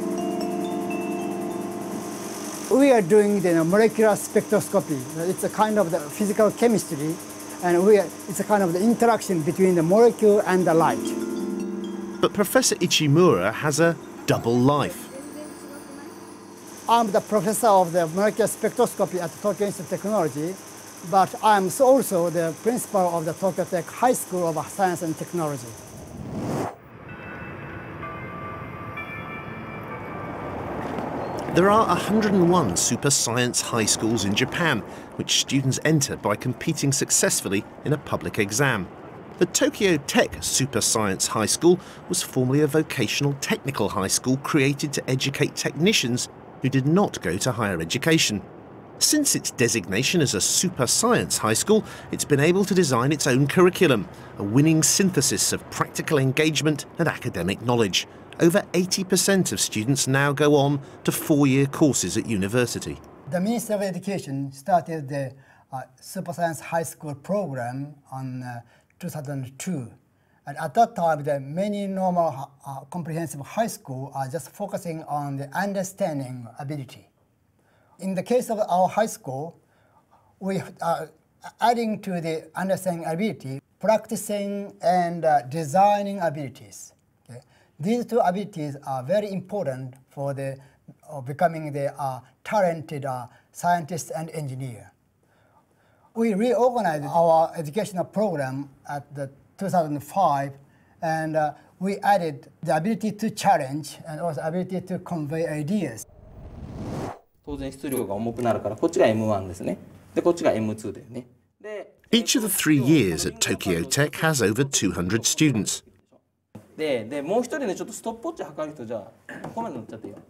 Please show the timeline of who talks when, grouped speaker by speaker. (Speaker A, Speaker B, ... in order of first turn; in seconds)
Speaker A: 2.7-11.2, 16.9-25.8, 63.3-69.9, 70.5-77.1, 78.0-79.6, 80.4-94.9, 96.1-106.0
Speaker B: 12.2-15.1, 31.5-48.5, 49.0-63.0, 112.1-115.8
Speaker C: 107.5-111.9, 116.8-120.2